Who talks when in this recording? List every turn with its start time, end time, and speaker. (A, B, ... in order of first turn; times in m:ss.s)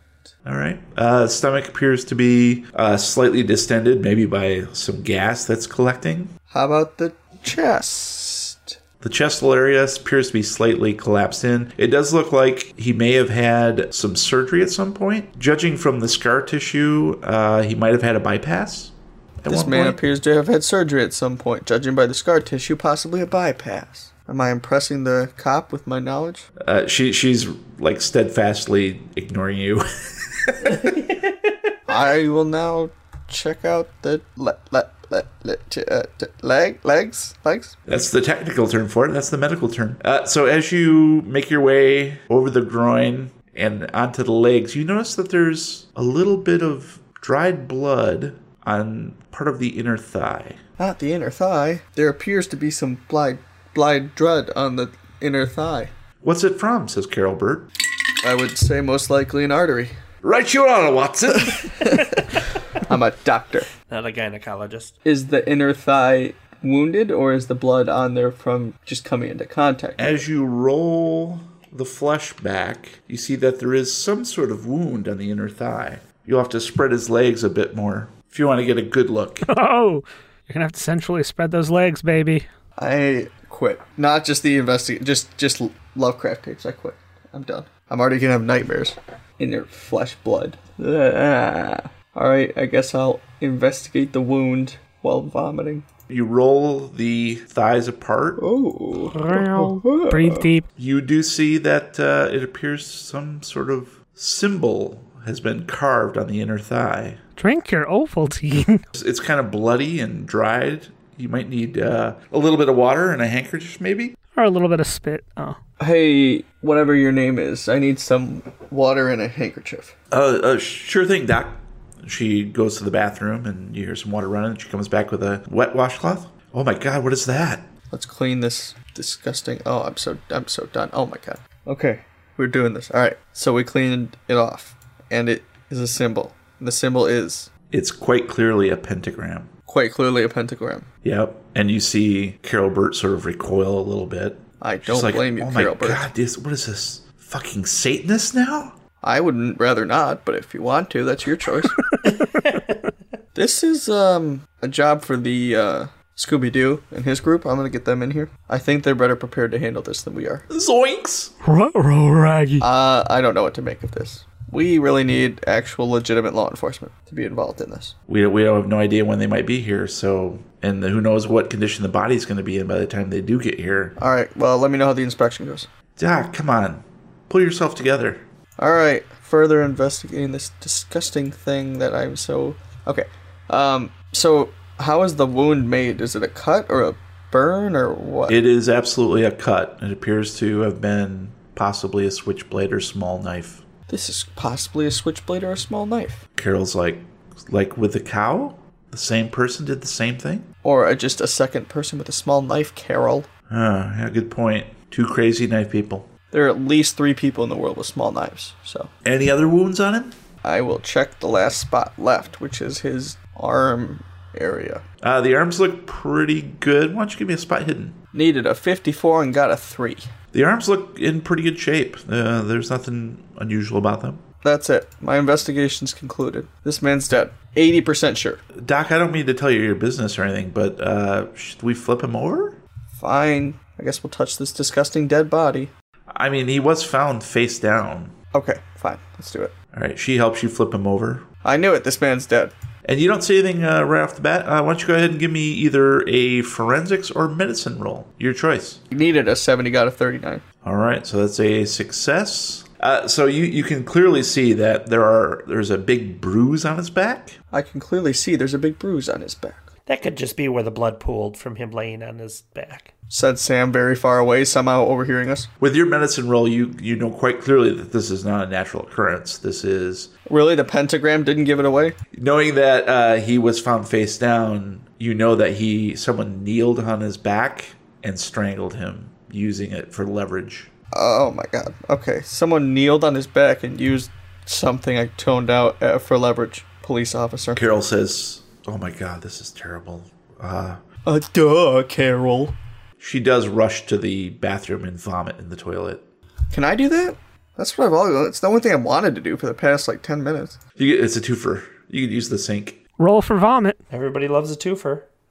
0:00.4-0:06.3 A
0:06.5-0:08.8 B
0:09.0-0:18.9 A
0:19.4-0:20.0 A
0:19.5-0:26.4 B
0:26.6-0:31.1 A
0:31.9-0:37.8 B
0:37.9-0:50.6 A
0:50.8-0:55.9 B
0:56.2-0:57.7 A
0:58.2-0:59.9 B
1:00.2-1:02.2 A
1:01.4-1:03.7 B
1:03.9-1:04.9 C
1:05.0-1:10.2 B
1:10.0-1:19.4 A
1:19.5-1:22.4 D
1:22.8-1:35.8 B
1:36.1-1:38.4 A
1:38.4-1:40.5 B
1:39.1-1:40.7 D
1:40.8-1:47.2 A
1:47.4-1:48.8 D
1:48.9-1:54.2 A
1:54.3-1:55.6 D
1:55.8-1:59.9 B
2:00.1-2:07.7 A
2:07.9-2:17.5 B
2:17.7-2:19.5 A
2:19.7-2:20.9 B
2:21.0-2:28.7 A
2:24.6-2:26.1 B
2:29.0-2:31.7 B
2:32.2-2:32.8 C
2:33.3-2:40.4 B
2:40.5-2:41.3 A
2:41.4-2:42.6 C
2:42.6-2:47.9 B
2:48.1-2:53.9 A
2:54.0-2:55.7 B
2:56.0-2:58.2 A
2:58.6-3:08.4 B
3:08.3-3:13.6 A
3:13.9-3:16.2 B
3:16.3-3:20.5 A
3:20.6-3:23.3 B
3:23.5-3:26.1 A
3:26.3-3:28.9 B
3:29.0-3:30.1 A
3:30.4-3:34.8 B
3:35.0-3:38.0 A
3:38.1-3:40.1 B
3:40.3-3:44.2 A
3:44.4-3:48.4 B
3:48.6-3:52.6 A
3:53.0-3:55.7 B
3:56.1-3:58.1 A
3:58.3-3:59.5 B
3:59.7-4:01.2 A
4:01.4-4:02.5 B
4:02.8-4:08.8 A
4:08.9-4:10.4 B
4:10.6-4:17.4 A
4:17.5-4:19.7 B
4:19.8-4:22.9 C
4:23.1-4:25.5 B
4:25.6-4:30.1 A
4:30.3-4:32.0 B
4:32.1-4:40.7 A
4:40.9-4:47.6 B
4:47.6-4:50.8 A
4:51.0-4:52.6 B
4:53.0-4:56.0 A
4:56.5-5:00.6 B
5:00.8-5:02.8 A
5:03.0-5:03.8 D
5:03.9-5:05.0 C